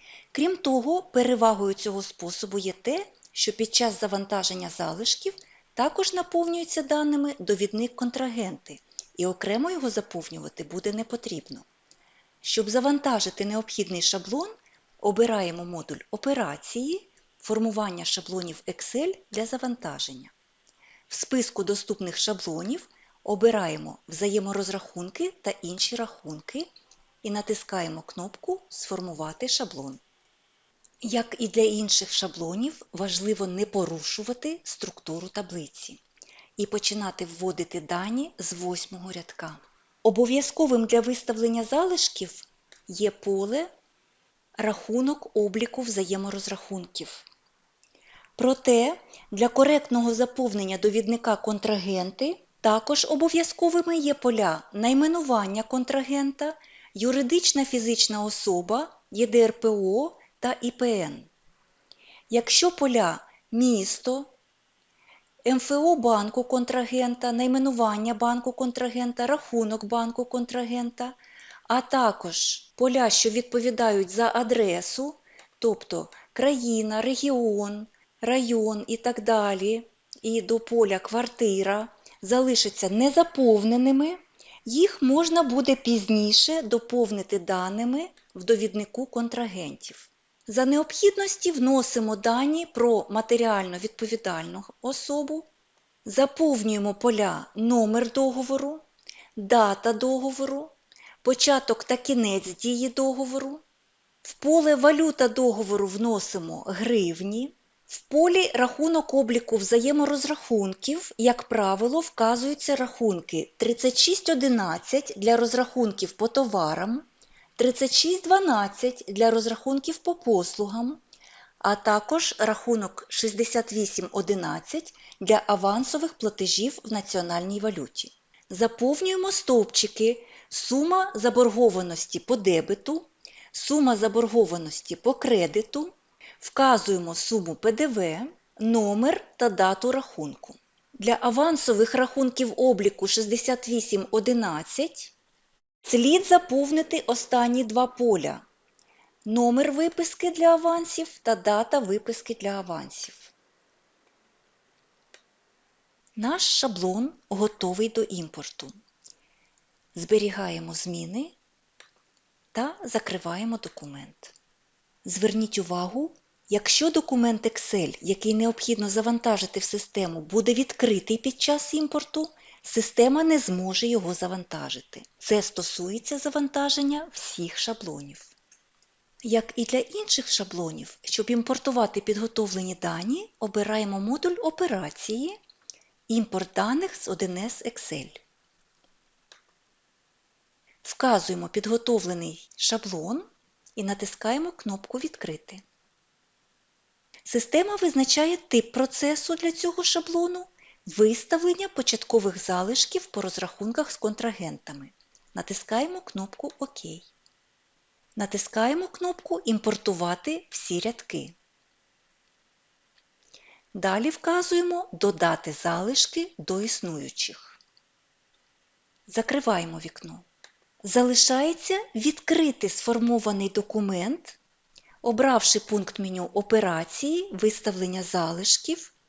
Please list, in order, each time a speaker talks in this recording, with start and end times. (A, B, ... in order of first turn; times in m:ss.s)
0:00.3-0:11.6 A
0:12.4-0:20.3 A
0:21.1-0:26.7 A
0:27.2-0:30.0 A
0:31.0-0:36.0 A
0:36.6-0:43.7 A
0:44.6-0:47.2 A
0:48.4-1:01.3 A
1:02.3-1:04.3 A
1:05.4-1:11.2 A
1:11.7-1:35.5 A
1:36.0-1:38.8 A
1:39.4-1:43.6 A
1:44.2-1:57.0 A
1:57.6-2:01.0 A
2:01.6-2:25.1 A
2:25.8-2:28.4 A
2:29.2-2:33.3 A
2:36.2-2:38.7 A
2:39.9-2:41.4 A
2:42.5-2:44.3 A
2:45.0-2:58.3 A
2:59.2-3:05.4 A
3:06.1-3:08.2 A
3:10.8-3:15.6 A
3:17.2-3:27.1 A
3:28.2-3:31.4 A
3:33.7-3:37.6 A
3:39.1-3:40.2 A
3:40.8-3:44.4 A
3:45.0-3:48.9 A